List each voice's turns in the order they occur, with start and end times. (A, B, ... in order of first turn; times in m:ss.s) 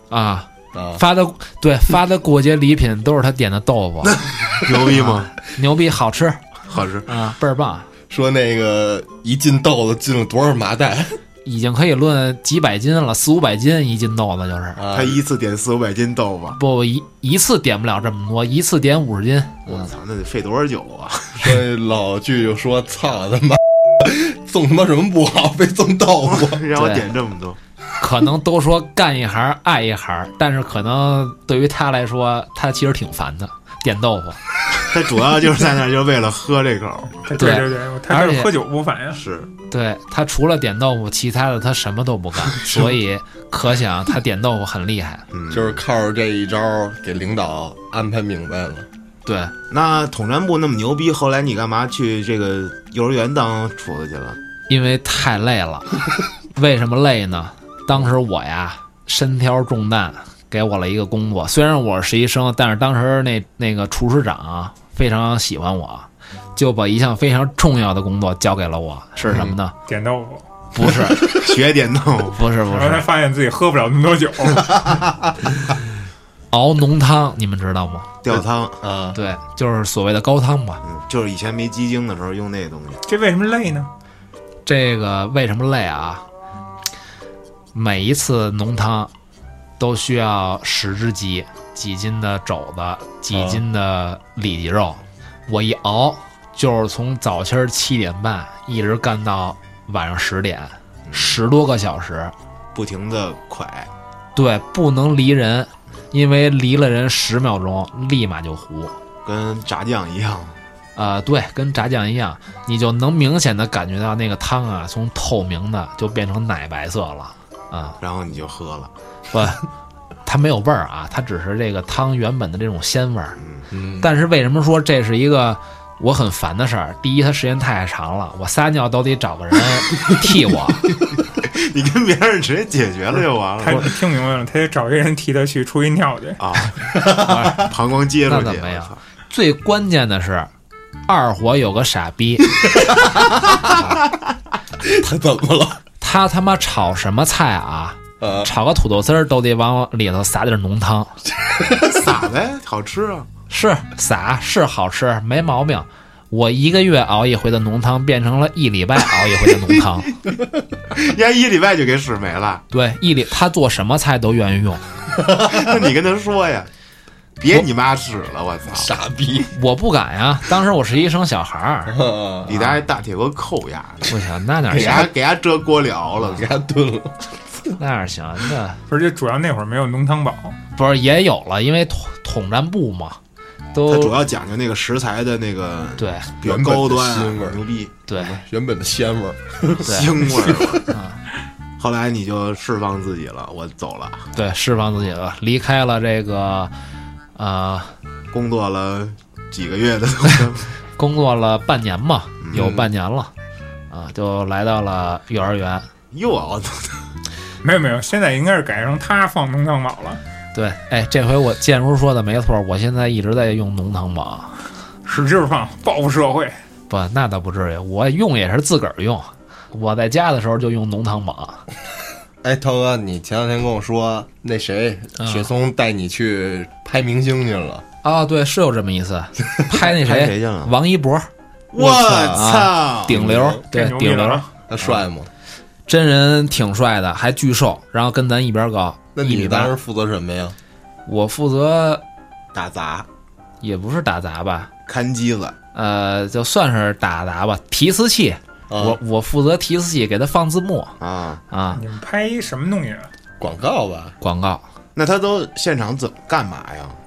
0:00.1-0:04.2 A
0:00.7-0:01.0 B
0:04.0-0:05.3 C
0:04.8-0:06.4 A
0:06.7-0:07.1 C
0:07.0-0:07.9 A
0:08.1-0:11.2 B
0:11.4-0:14.8 A
0:14.8-0:15.2 B
0:14.9-0:16.6 C
0:16.6-0:19.9 A
0:19.6-0:21.6 C
0:21.4-0:26.6 B
0:26.3-0:27.6 C
0:26.7-0:27.1 A
0:28.0-0:34.4 A
0:34.8-0:37.2 C
0:37.2-0:39.2 D
0:37.4-0:38.5 A
0:39.1-0:39.5 C
0:39.7-0:45.2 A
0:45.3-0:45.8 C
0:45.5-0:48.9 B
0:49.2-0:49.5 A
0:49.7-0:54.4 C
0:54.7-0:56.0 A
0:56.5-1:09.7 A
1:09.3-1:09.6 B
1:09.9-1:10.5 D
1:10.7-1:11.4 A
1:11.1-1:12.4 C
1:12.3-1:13.1 A
1:12.7-1:15.0 D
1:16.5-1:18.1 A
1:18.2-1:18.8 C
1:18.3-1:19.2 B
1:19.1-1:20.8 A
1:20.8-1:23.0 C
1:23.1-1:23.9 D
1:24.6-1:26.2 A
1:27.7-1:29.1 A
1:29.8-1:42.3 A
1:33.3-1:33.6 B
1:41.0-1:41.4 C
1:42.7-1:43.9 C
1:44.4-1:49.0 A
1:49.2-1:50.6 C
1:51.0-1:58.0 A
1:58.0-1:58.9 C
1:59.3-1:59.6 A
2:00.2-2:03.4 A
2:03.4-2:03.7 C
2:03.7-2:04.1 B
2:04.0-2:10.9 A
2:11.3-2:13.9 C
2:13.6-2:16.4 D
2:16.4-2:19.0 C
2:17.0-2:17.4 B
2:17.0-2:17.7 A
2:18.3-2:20.5 A
2:21.0-2:22.7 A
2:22.8-2:23.7 B
2:23.7-2:24.0 A
2:24.8-2:25.8 B
2:26.0-2:31.1 A
2:28.2-2:28.5 B
2:31.4-2:31.9 B
2:31.8-2:33.3 C
2:33.5-2:40.1 A
2:40.9-2:42.6 C
2:42.7-2:44.8 A
2:45.1-2:45.9 B
2:45.4-2:46.7 C
2:47.4-2:48.9 C
2:48.7-2:49.5 B
2:49.5-2:52.0 A
2:51.8-2:52.6 B
2:52.4-2:54.2 C
2:52.5-2:52.8 A
2:54.1-2:55.1 A
2:54.7-2:55.1 B
2:54.7-2:56.5 C
2:56.3-2:57.7 B
2:57.8-2:58.8 A
2:58.9-3:00.6 D
3:00.7-3:03.2 A
3:03.7-3:04.2 A
3:03.9-3:07.9 C
3:06.0-3:06.3 A
3:06.4-3:07.6 B
3:08.1-3:08.4 A
3:08.1-3:10.8 B
3:09.8-3:10.9 C
3:09.8-3:10.1 A
3:10.9-3:11.2 A
3:11.8-3:14.3 C
3:14.3-3:16.7 A
3:17.4-3:17.9 A
3:18.3-3:20.7 C
3:21.0-3:23.3 A
3:22.4-3:22.8 C
3:23.9-3:25.9 A
3:26.1-3:27.0 C
3:27.6-3:30.2 D
3:30.5-3:34.6 A
3:35.0-3:36.6 D
3:36.9-3:41.6 A
3:42.4-3:47.8 B
3:45.2-3:45.5 A
3:48.0-3:51.3 A
3:49.8-3:50.7 C
3:51.7-3:53.3 C
3:51.8-3:52.5 B
3:52.3-3:55.0 A
3:53.1-3:53.6 B
3:53.7-3:54.5 D
3:54.7-3:55.3 B
3:55.9-3:59.7 A
3:59.2-4:00.6 B
4:01.0-4:02.0 A
4:02.5-4:03.1 C
4:03.6-4:04.7 A
4:04.8-4:05.6 C
4:05.7-4:11.0 A
4:08.7-4:09.0 B
4:11.0-4:11.4 C
4:11.5-4:11.8 A
4:11.7-4:13.1 D
4:13.4-4:14.2 B
4:14.2-4:14.6 A
4:14.9-4:17.0 C